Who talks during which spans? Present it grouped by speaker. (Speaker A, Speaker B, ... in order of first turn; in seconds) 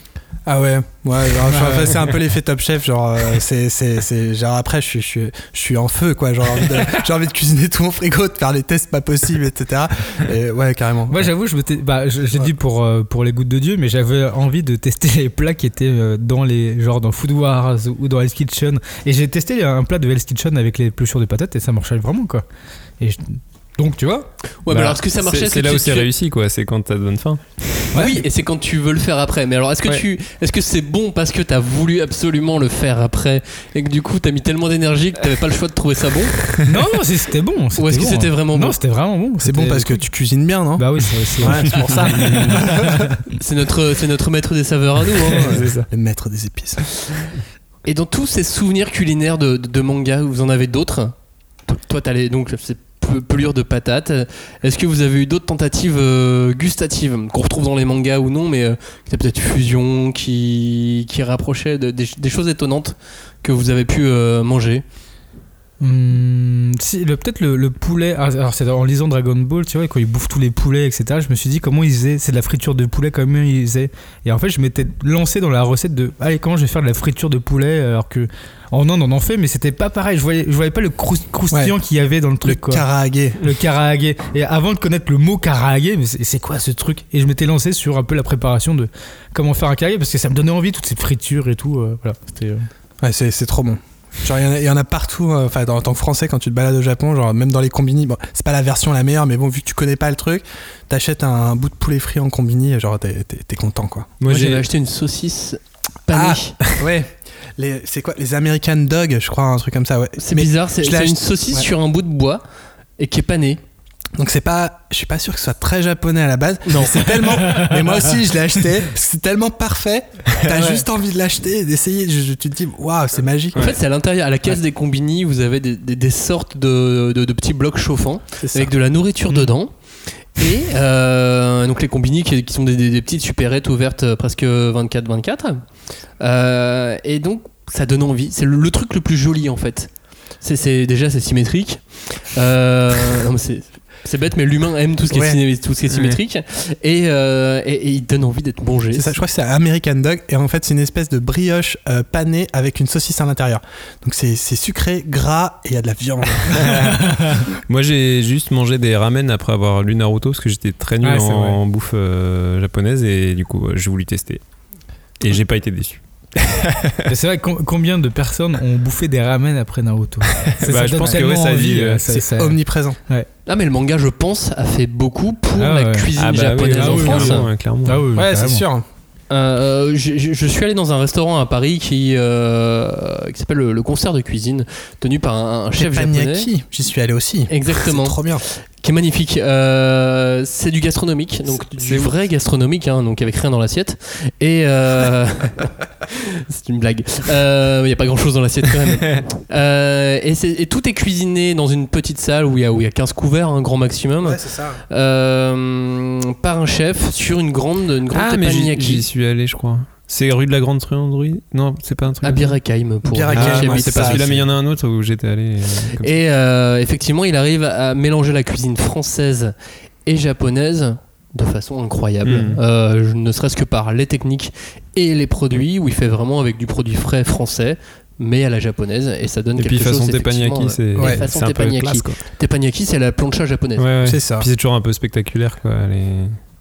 Speaker A: 0.5-11.3, 39.4-43.1, 45.3-46.8, 81.5-81.8, 82.4-83.4, 93.0-104.1, 106.1-111.7, 114.2-123.7, 128.4-128.7, 145.1-145.4, 148.9-156.7, 171.0-171.3, 172.1-173.0, 178.1-178.9, 185.8-188.4, 204.2-204.8, 213.1-214.4, 231.0-231.2, 234.0-234.5
Speaker B: 1.5-2.0, 11.1-22.4, 23.0-25.0, 36.7-40.0, 40.8-43.2, 65.8-82.8, 83.4-92.7, 117.4-117.8, 157.1-157.4, 161.0-161.6, 167.1-173.3, 175.6-176.1, 176.7-178.6
Speaker C: 24.6-26.1, 27.9-36.4, 37.8-38.8, 43.4-45.5, 47.9-51.1, 51.7-64.8, 104.3-106.6, 110.2-112.4, 113.0-113.6, 116.7-117.0, 123.5-129.7, 130.3-135.6, 136.2-149.1, 173.5-177.5, 179.3-186.5, 187.5-188.2, 188.8-209.1, 212.2-214.3, 216.0-219.5, 220.1-233.8
Speaker D: 25.2-27.9, 41.8-42.4, 45.4-45.9, 104.2-104.6, 145.9-146.2, 156.5-157.0, 157.7-164.4, 165.2-167.1, 170.4-172.1, 176.2-178.0, 191.7-192.1, 208.1-212.6, 213.3-216.2, 222.2-222.6, 229.6-232.2, 233.8-236.4